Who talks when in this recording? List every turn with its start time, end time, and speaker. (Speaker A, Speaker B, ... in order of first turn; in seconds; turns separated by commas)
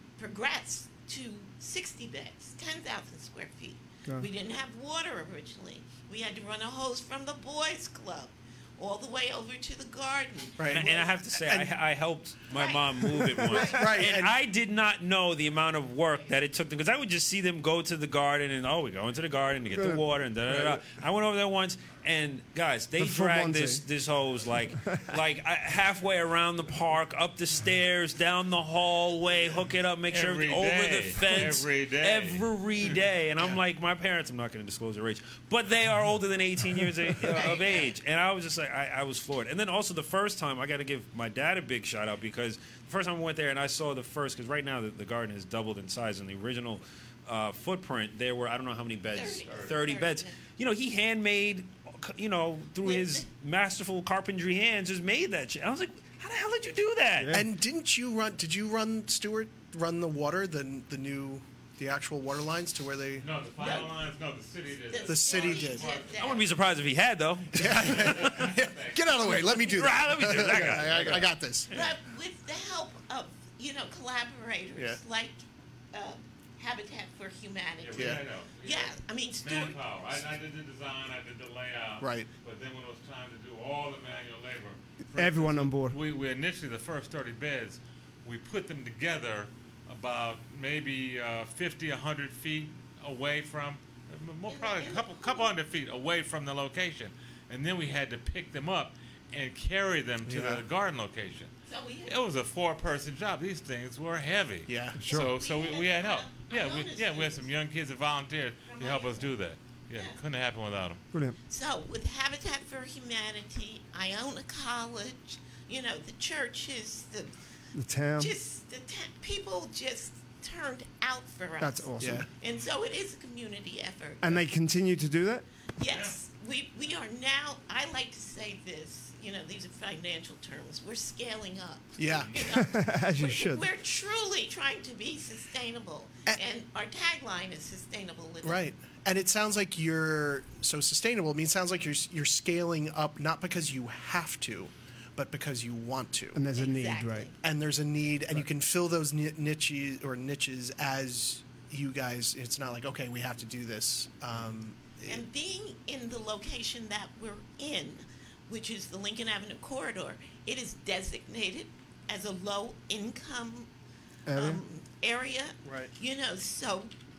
Speaker A: 0.2-11.2, Speaker B: 10.6-11.7, Speaker C: 10.7-57.4, Speaker A: 12.5-13.9, Speaker B: 13.5-14.4, Speaker D: 19.8-20.0, Speaker D: 23.0-23.8, Speaker E: 30.1-33.0, Speaker A: 37.3-37.9, Speaker A: 49.1-50.4, Speaker A: 52.8-53.2, Speaker D: 57.2-57.5, Speaker B: 57.3-63.3, Speaker E: 63.2-66.3, Speaker A: 63.6-64.1, Speaker A: 64.9-66.5, Speaker B: 65.1-65.9, Speaker C: 66.2-68.5, Speaker B: 67.5-71.7, Speaker E: 67.6-69.3, Speaker C: 69.3-71.9, Speaker A: 71.7-79.9, Speaker E: 77.8-101.5, Speaker B: 77.9-78.2, Speaker B: 82.0-82.3, Speaker D: 85.2-86.0, Speaker A: 94.5-95.5, Speaker B: 100.2-100.6, Speaker A: 101.7-102.2, Speaker E: 102.0-111.0, Speaker B: 104.7-105.1, Speaker D: 105.0-105.3, Speaker A: 105.1-107.5, Speaker A: 108.7-109.3, Speaker A: 109.9-110.2, Speaker A: 111.5-117.3, Speaker D: 117.7-118.3, Speaker A: 118.2-124.4, Speaker D: 121.6-122.3, Speaker B: 122.0-122.3, Speaker D: 124.2-125.4, Speaker A: 125.8-138.6, Speaker E: 125.9-126.1, Speaker B: 132.0-132.3, Speaker D: 132.4-133.7, Speaker B: 138.4-146.4, Speaker D: 146.3-147.3, Speaker A: 146.5-147.3, Speaker B: 147.4-155.2, Speaker A: 155.1-163.7, Speaker D: 164.3-164.6, Speaker A: 164.3-166.9, Speaker B: 165.6-165.9